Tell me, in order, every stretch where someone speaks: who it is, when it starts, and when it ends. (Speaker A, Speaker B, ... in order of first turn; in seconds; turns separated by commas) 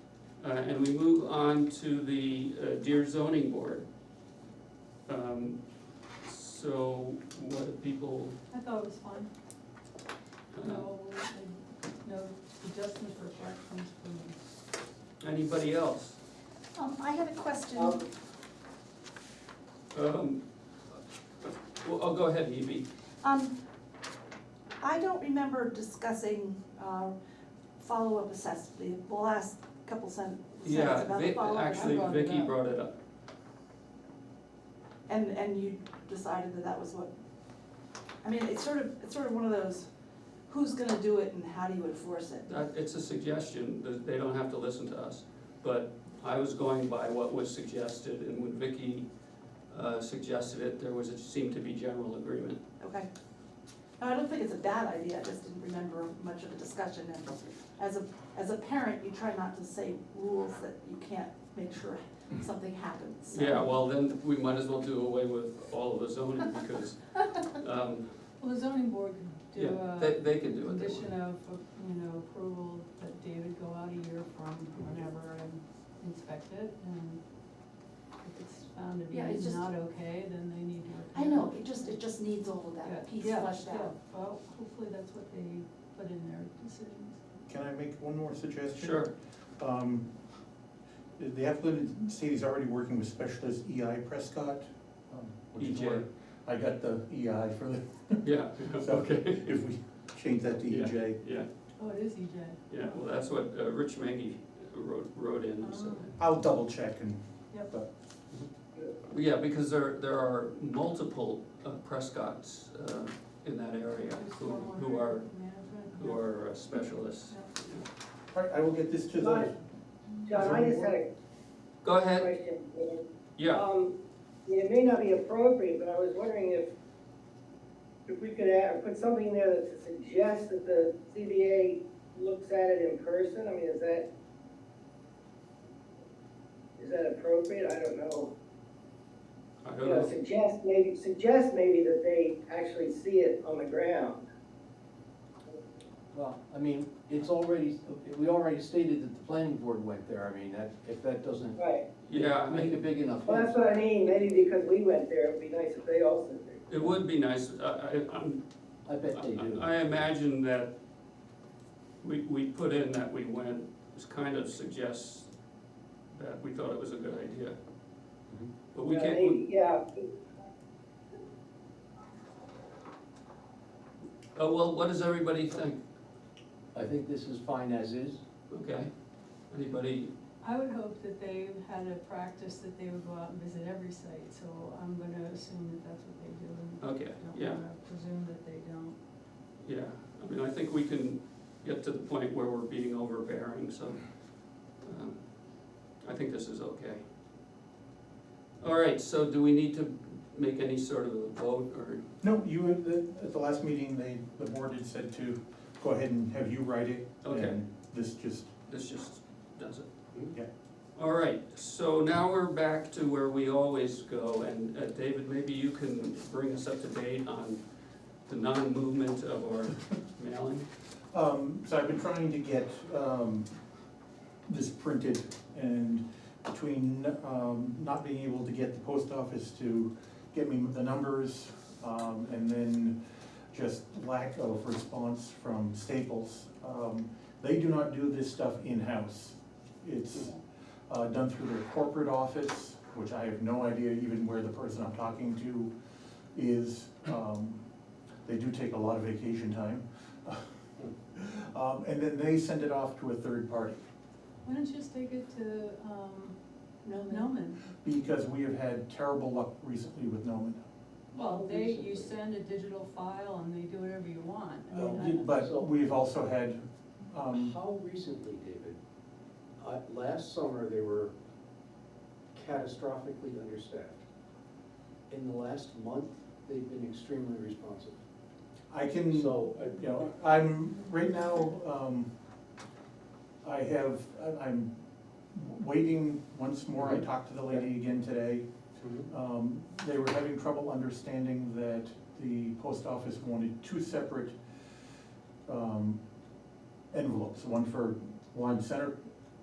Speaker A: 0.4-3.9, Speaker A: 5.1-5.6, Speaker A: 6.2-8.4, Speaker B: 8.5-9.3, Speaker A: 10.5-10.9, Speaker B: 10.6-14.4, Speaker A: 15.2-16.2, Speaker C: 16.8-18.0, Speaker A: 19.9-22.9, Speaker C: 23.2-23.5, Speaker C: 24.8-27.1, Speaker C: 27.8-32.2, Speaker A: 30.6-32.9, Speaker B: 31.8-32.6, Speaker C: 35.1-37.1, Speaker C: 38.2-39.9, Speaker C: 40.5-42.6, Speaker A: 42.5-49.1, Speaker A: 49.7-52.6, Speaker C: 52.8-53.1, Speaker C: 54.0-63.6, Speaker A: 63.3-68.2, Speaker B: 68.4-77.2, Speaker A: 69.5-71.1, Speaker B: 78.2-82.0, Speaker C: 79.1-79.7, Speaker C: 81.1-84.0, Speaker B: 82.8-87.2, Speaker D: 87.5-90.1, Speaker A: 88.8-89.1, Speaker D: 91.2-101.2, Speaker A: 95.6-96.0, Speaker A: 98.2-99.4, Speaker A: 100.7-101.5, Speaker B: 101.8-103.3, Speaker A: 102.7-106.2, Speaker B: 105.6-106.1, Speaker D: 106.2-107.9, Speaker A: 109.1-115.3, Speaker B: 114.1-116.2, Speaker A: 116.0-117.8, Speaker B: 117.3-117.5, Speaker D: 118.3-119.6, Speaker E: 119.2-119.5, Speaker E: 120.3-121.1, Speaker D: 120.3-120.9, Speaker A: 121.8-122.3, Speaker E: 122.2-126.7, Speaker A: 123.4-123.6, Speaker E: 128.1-134.1, Speaker E: 136.8-138.3, Speaker A: 139.6-140.1, Speaker E: 139.8-144.2, Speaker F: 146.1-153.7, Speaker E: 151.6-151.9, Speaker A: 152.0-152.8, Speaker E: 153.2-156.7, Speaker A: 156.7-158.4, Speaker F: 158.8-159.9, Speaker A: 159.1-160.7, Speaker A: 162.0-165.3, Speaker A: 166.1-167.6, Speaker A: 168.7-169.4, Speaker E: 168.8-170.1, Speaker A: 174.4-175.8, Speaker F: 176.7-178.2, Speaker A: 178.5-178.9, Speaker A: 179.5-180.1, Speaker B: 180.4-189.0, Speaker A: 186.8-187.6, Speaker A: 189.6-194.1, Speaker A: 194.7-197.0, Speaker A: 198.6-202.1, Speaker D: 202.2-208.5, Speaker A: 207.2-207.6, Speaker A: 208.7-209.9, Speaker A: 210.9-217.6, Speaker A: 218.3-220.7, Speaker D: 221.1-223.5, Speaker D: 224.5-233.0, Speaker D: 233.5-240.4, Speaker D: 240.9-245.7, Speaker D: 246.3-247.6, Speaker D: 248.2-253.8, Speaker B: 254.4-256.4, Speaker C: 256.8-257.4, Speaker B: 257.1-257.6, Speaker D: 257.8-260.7, Speaker F: 261.1-262.2, Speaker B: 261.1-265.1, Speaker D: 264.7-267.6, Speaker F: 264.7-265.7, Speaker F: 267.3-268.8, Speaker F: 269.6-271.1, Speaker F: 272.3-274.0, Speaker F: 275.1-278.0, Speaker D: 278.7-282.1, Speaker F: 279.1-279.8, Speaker D: 283.4-284.7, Speaker D: 285.3-288.5, Speaker F: 286.8-287.6, Speaker F: 288.8-289.1, Speaker D: 289.1-294.4, Speaker D: 295.5-296.0, Speaker D: 296.9-299.0